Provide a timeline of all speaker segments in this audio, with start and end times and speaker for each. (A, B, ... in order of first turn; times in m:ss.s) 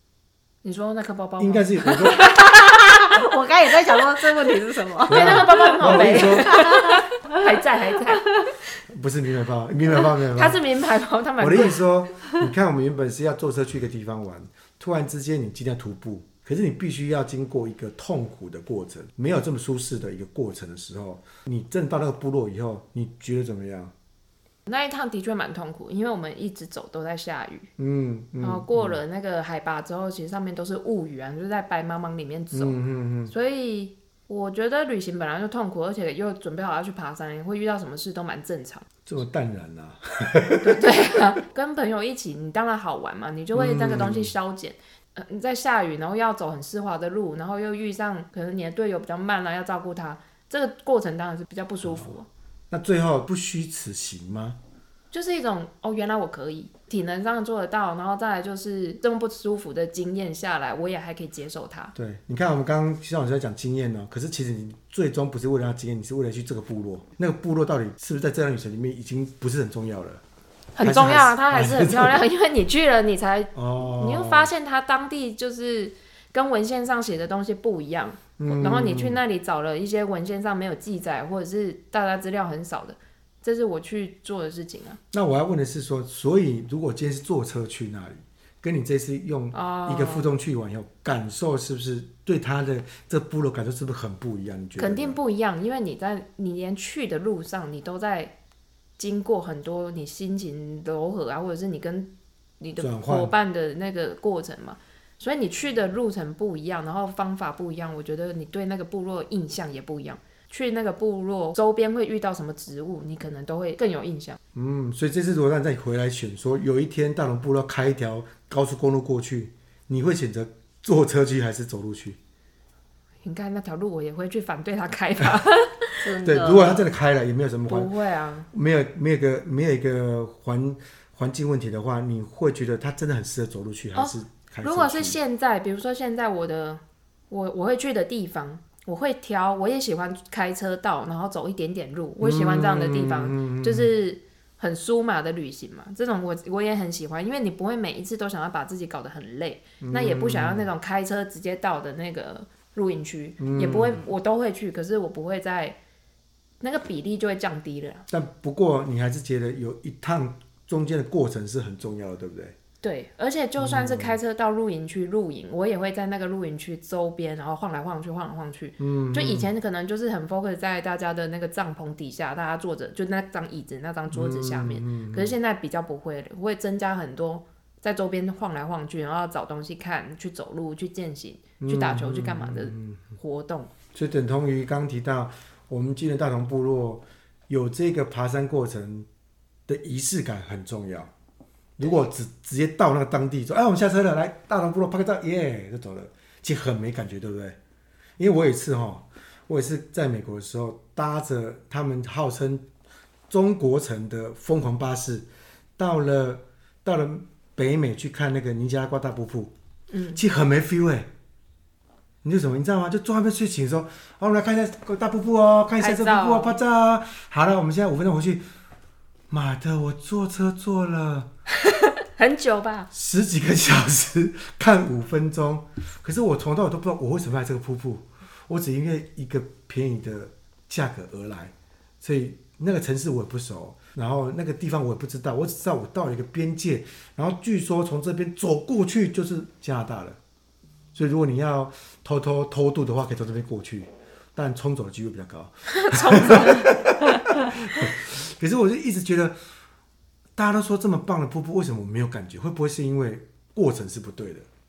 0:00.6-0:02.7 A
0:01.4-0:02.3 B
0:02.2-0:07.6 C
0:05.1-0:06.6 B
0:05.1-0:08.3 A
0:08.9-0:10.6 B
0:10.3-0:11.8 A
0:11.4-0:23.9 B
0:24.7-0:27.7 A
0:27.8-0:29.0 B
0:28.4-0:38.9 A
0:32.5-0:33.3 B
0:39.1-0:41.0 B
0:40.6-0:52.3 A
0:43.5-0:44.3 B
0:51.8-0:52.1 B
0:52.7-0:54.6 B
0:55.1-1:01.9 A
1:02.0-1:10.2 B
1:10.8-1:25.0 A
1:10.8-1:12.2 B
1:13.6-1:14.5 B
1:18.4-1:19.2 B
1:25.1-1:35.2 B
1:29.5-1:30.3 A
1:34.8-1:38.3 A
1:39.0-1:54.4 A
1:42.8-1:43.3 B
1:54.6-2:02.2 B
2:03.2-2:06.0 A
2:06.0-2:06.9 C
2:06.2-2:07.9 B
2:07.7-2:08.5 A
2:08.5-2:15.2 B
2:14.0-2:35.8 A
2:22.2-2:23.9 B
2:29.8-2:30.7 B
2:33.4-2:34.0 B
2:36.6-2:38.1 A
2:38.1-2:42.6 B
2:42.8-3:03.7 A
2:43.6-2:44.2 B
2:48.8-2:49.5 B
2:54.1-2:55.3 B
3:01.6-3:03.1 B
3:03.9-3:09.1 B
3:09.7-3:11.1 B
3:11.8-3:17.6 B
3:18.2-3:22.6 B
3:23.3-3:25.3 B
3:25.8-3:29.5 B
3:29.9-3:30.2 A
3:30.1-3:31.1 B
3:32.2-3:38.4 B
3:35.8-3:36.6 A
3:39.3-3:41.3 B
3:41.6-3:42.9 A
3:42.9-4:00.2 B
4:00.9-4:09.4 B
4:05.7-4:06.7 A
4:10.4-4:14.5 B